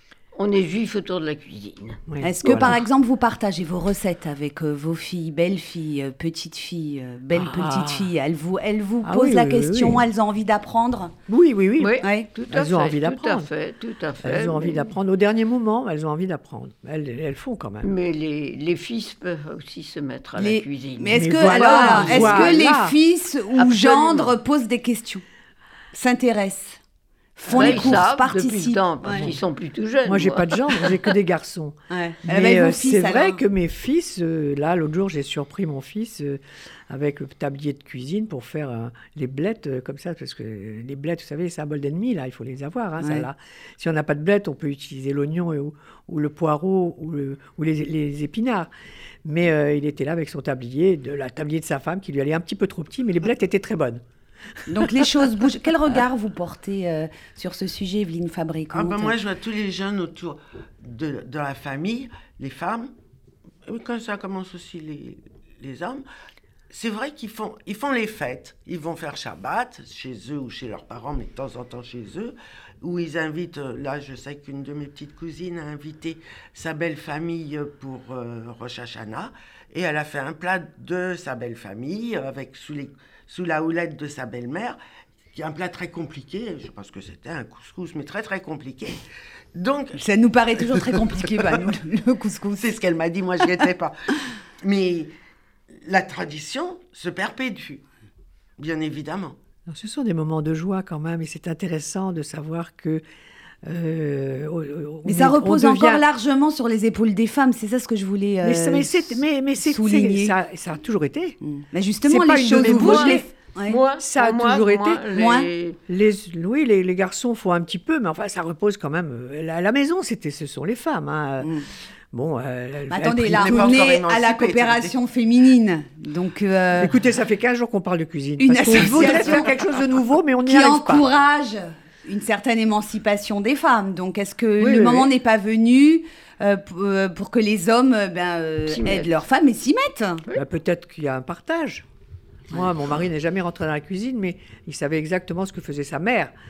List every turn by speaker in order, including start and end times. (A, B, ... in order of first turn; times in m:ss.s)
0:00.4-0:02.8 A
0:02.1-0:02.8 B
0:02.2-0:11.1 C
0:07.3-0:08.1 B
0:09.0-0:10.0 B
0:11.3-0:13.5 B
0:11.8-0:14.9 A
0:12.0-0:12.3 C
0:14.2-0:17.9 B
0:17.8-0:22.7 A
0:20.4-0:25.2 C
0:21.1-0:23.0 B
0:23.6-0:24.4 A
0:25.9-0:26.8 C
0:27.4-0:29.3 C
0:27.5-0:28.0 B
0:27.5-0:31.0 A
0:30.1-0:48.7 B
0:31.9-0:33.4 C
0:43.0-0:43.3 C
0:49.2-0:54.0 B
0:54.7-0:59.2 C
0:58.7-1:02.9 D
1:03.7-1:06.0 D
1:06.7-1:24.8 D
1:25.3-1:29.0 D
1:29.6-1:30.0 D
1:30.0-1:32.8 C
1:32.6-1:34.0 D
1:34.6-1:35.1 D
1:35.8-1:37.8 D
1:38.6-1:39.4 D
1:39.7-1:43.0 B
1:43.6-1:46.0 B
1:45.1-1:50.3 C
1:48.4-1:51.4 B
1:51.4-1:53.8 C
1:52.0-1:53.2 B
1:52.6-1:55.8 A
1:54.0-1:55.1 B
1:55.1-1:55.5 C
1:55.9-2:01.5 B
2:01.4-2:01.7 C
2:02.1-2:03.7 B
2:02.9-2:07.0 C
2:03.3-2:04.9 D
2:06.8-2:11.0 B
2:08.4-2:09.5 C
2:10.5-2:20.2 C
2:14.6-2:15.1 B
2:18.7-2:19.1 A
2:20.4-2:21.9 B
2:22.5-2:26.3 B